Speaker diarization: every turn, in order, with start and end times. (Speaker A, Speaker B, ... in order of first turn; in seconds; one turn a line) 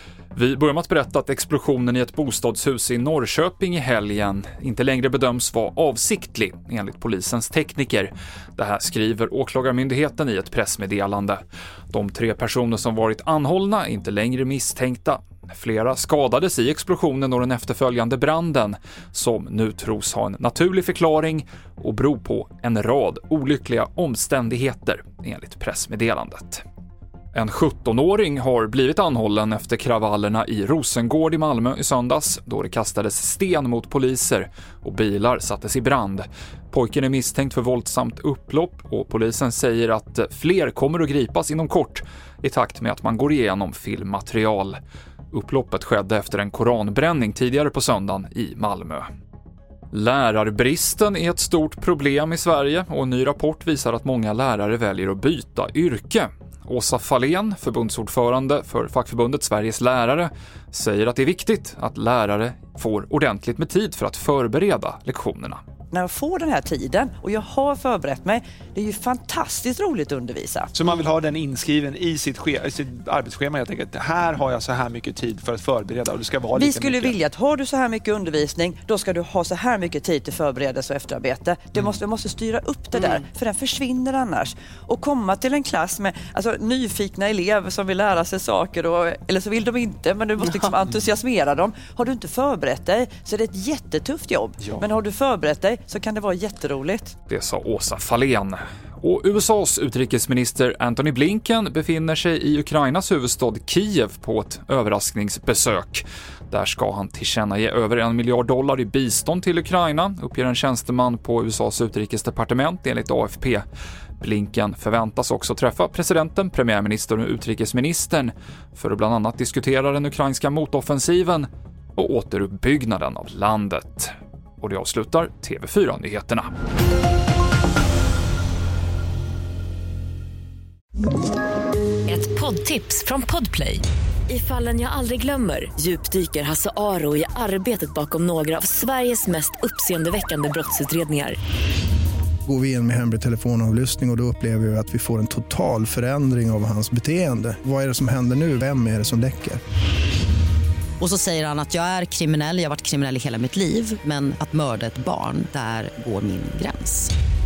Speaker A: 0.3-26.6
Speaker A: 27.3-44.8
Speaker A: 45.3-49.1
Speaker A: 49.9-65.6
Speaker B: 65.9-70.7
Speaker C: 70.7-77.2
Speaker B: 76.6-97.1
Speaker A: 97.3-113.7
Speaker A: 114.2-126.5
Speaker D: 132.1-141.4
Speaker E: 142.5-149.6
Speaker F: 151.0-157.1